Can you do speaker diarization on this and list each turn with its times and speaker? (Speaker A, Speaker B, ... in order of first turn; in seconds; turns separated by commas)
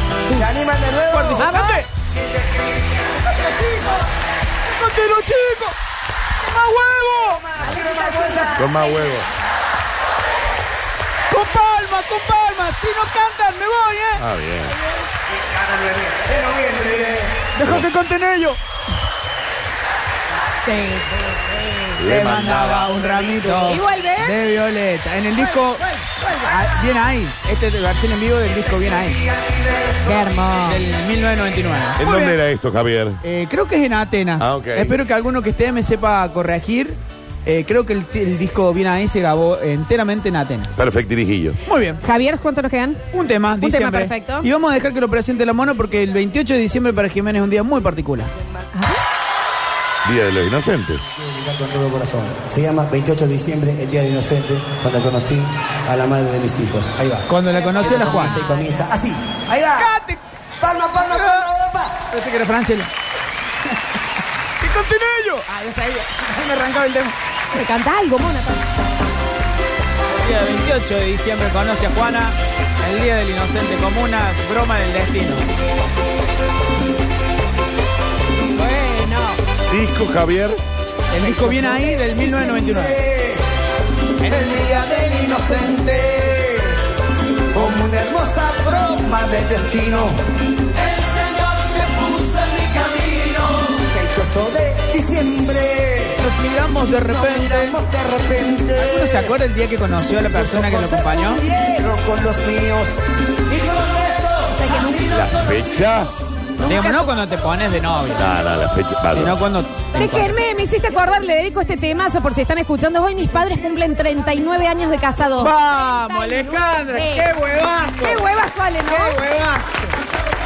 Speaker A: 0.3-1.5, Speaker B: 1.1-1.9, Speaker C: 1.4-1.8, Speaker A: 2.1-3.3, Speaker B: 3.3-4.0, Speaker B: 4.6-5.8, Speaker B: 6.4-8.6, Speaker A: 7.5-8.8, Speaker D: 8.5-9.3, Speaker B: 11.3-14.2, Speaker D: 14.2-14.8, Speaker A: 15.6-17.2, Speaker B: 17.3-18.6, Speaker C: 20.6-21.9, Speaker D: 22.0-22.9, Speaker B: 22.0-25.9, Speaker A: 23.1-23.5, Speaker C: 23.6-24.4, Speaker C: 25.4-26.5, Speaker B: 26.4-29.2, Speaker A: 29.0-30.4, Speaker C: 30.0-30.8, Speaker B: 30.6-32.4, Speaker D: 32.0-33.2, Speaker B: 33.2-40.7, Speaker D: 34.4-35.0, Speaker D: 40.8-41.6, Speaker B: 41.6-42.0, Speaker C: 42.0-43.0, Speaker B: 43.1-48.3, Speaker C: 43.6-44.5, Speaker C: 48.7-49.0, Speaker D: 50.0-51.0, Speaker E: 51.2-57.3, Speaker B: 57.3-58.5, Speaker E: 57.8-59.5, Speaker A: 58.3-59.9, Speaker B: 59.6-60.2, Speaker A: 60.6-62.0, Speaker B: 61.0-62.9, Speaker B: 64.6-67.2, Speaker C: 67.5-68.7, Speaker B: 70.1-75.5, Speaker C: 78.6-79.4, Speaker D: 79.7-80.6, Speaker B: 81.1-83.0, Speaker C: 81.2-81.9, Speaker A: 82.0-83.5, Speaker A: 84.2-86.8, Speaker A: 87.5-90.2, Speaker A: 90.8-96.2, Speaker B: 96.2-97.8, Speaker A: 96.9-99.3, Speaker B: 98.8-101.4, Speaker A: 100.2-106.1, Speaker C: 104.5-105.2, Speaker D: 105.1-106.1, Speaker C: 106.6-107.1, Speaker B: 106.6-108.3, Speaker D: 108.2-109.4, Speaker B: 109.1-110.3, Speaker C: 110.0-117.3, Speaker B: 115.4-118.3, Speaker C: 118.0-119.2, Speaker B: 118.8-119.9